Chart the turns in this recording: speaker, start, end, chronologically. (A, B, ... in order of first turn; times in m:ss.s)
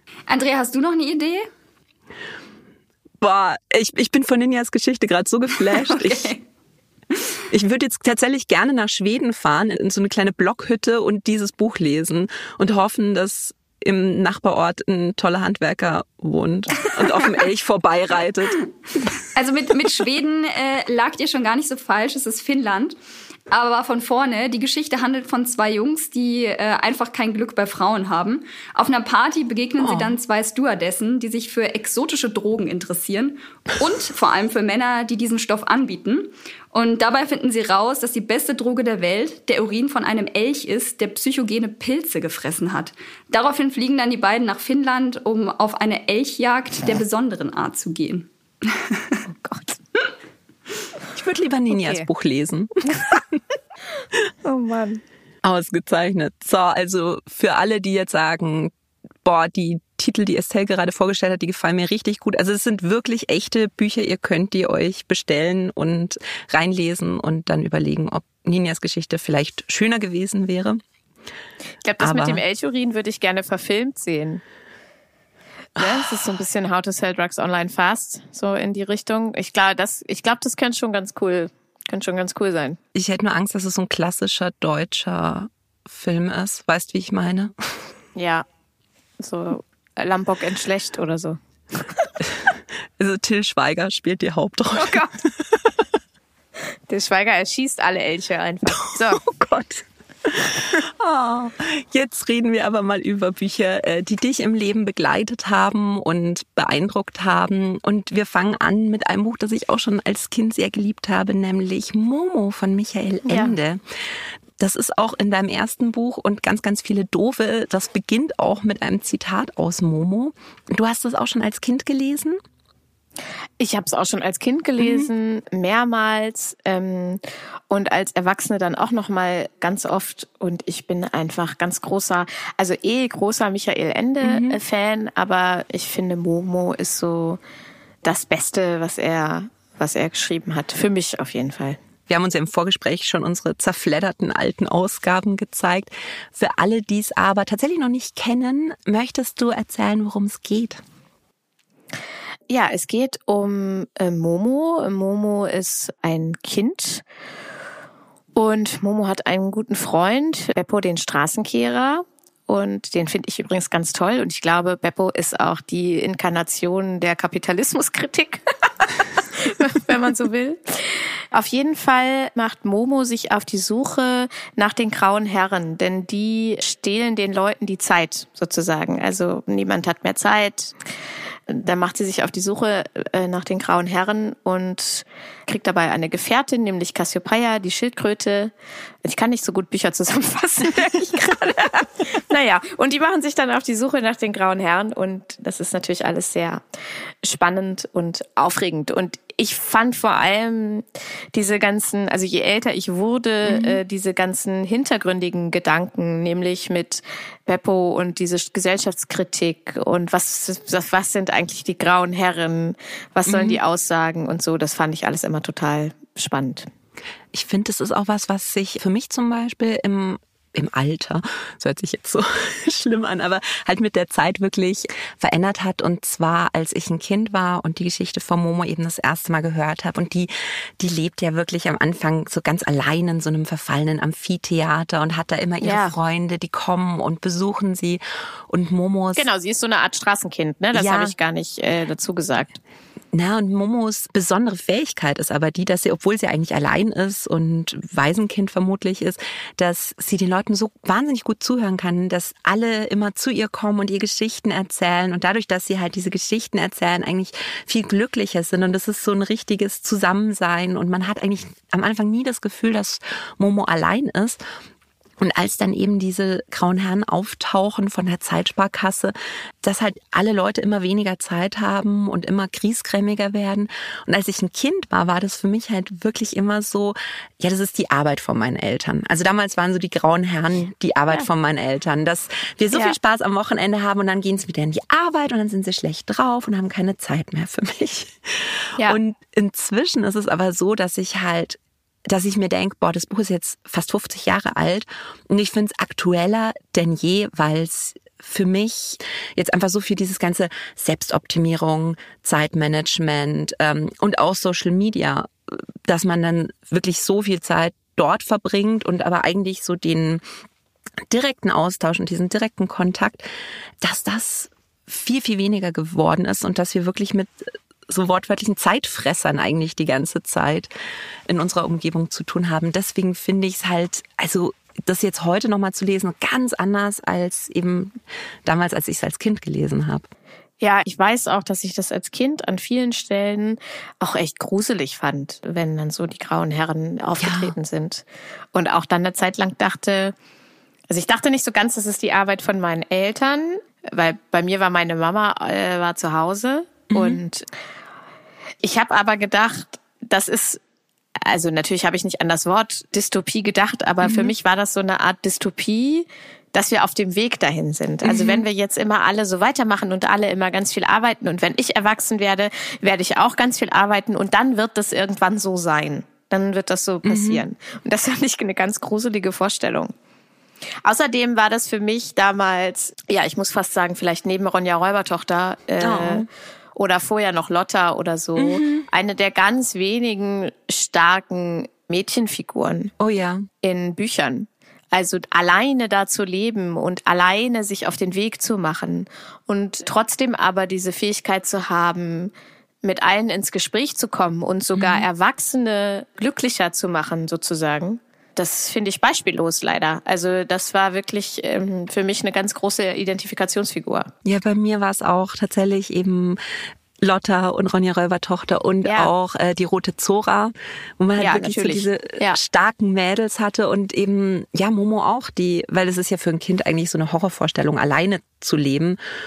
0:00.3-0:01.5 A
0:03.2-0:06.3 B
0:05.7-0:06.4 A
0:07.5-0:18.6 B
0:19.3-0:23.0 A
0:23.5-0:49.2 A
0:29.8-0:30.2 B
0:49.4-0:49.8 C
0:51.1-0:53.3 B
0:51.8-0:52.1 C
0:54.4-0:55.0 C
0:55.4-0:58.7 B
0:59.2-1:10.8 B
1:11.8-1:14.4 C
1:12.0-1:12.4 B
1:15.8-1:22.8 C
1:22.9-1:27.6 B
1:28.2-1:28.4 C
1:29.2-1:32.1 C
1:32.2-1:35.8 B
1:34.8-1:35.1 C
1:36.9-1:39.3 C
1:38.9-1:53.8 B
1:53.2-1:53.5 C
1:54.6-2:02.4 B
2:03.6-2:17.4 C
2:04.8-2:05.1 B
2:14.2-2:14.6 B
2:18.0-2:21.8 C
2:22.1-2:30.8 B
2:32.5-2:37.0 C
2:38.4-2:48.4 C
2:49.3-3:00.8 C
3:01.5-3:08.5 C
3:09.0-3:16.6 C
3:17.2-3:36.7 C
3:23.5-3:23.8 B
3:33.3-3:33.6 B
3:37.3-3:59.3 B
3:55.6-3:56.0 C
3:59.2-4:02.6 C
4:00.7-4:01.2 B
4:03.1-4:24.4 B
4:25.2-5:10.2 B
5:11.1-5:13.3 B
5:13.8-5:20.7 B
5:21.3-5:30.1 B
5:30.6-5:40.2 C
5:37.2-5:37.5 B
5:40.9-5:47.5 C
5:46.9-5:47.2 B
5:48.6-5:50.6 C
5:51.2-6:09.9 C
5:54.0-5:54.3 B
5:58.0-5:58.4 B
6:07.1-6:07.4 B
6:10.8-6:22.9 C
6:15.8-6:16.3 B
6:18.4-6:18.9 B
6:23.0-6:23.5 B
6:23.6-6:44.1 C
6:34.8-6:35.0 B
6:44.2-6:46.4 B
6:47.0-6:59.0 B
6:48.8-6:49.1 C
6:51.2-6:52.4 C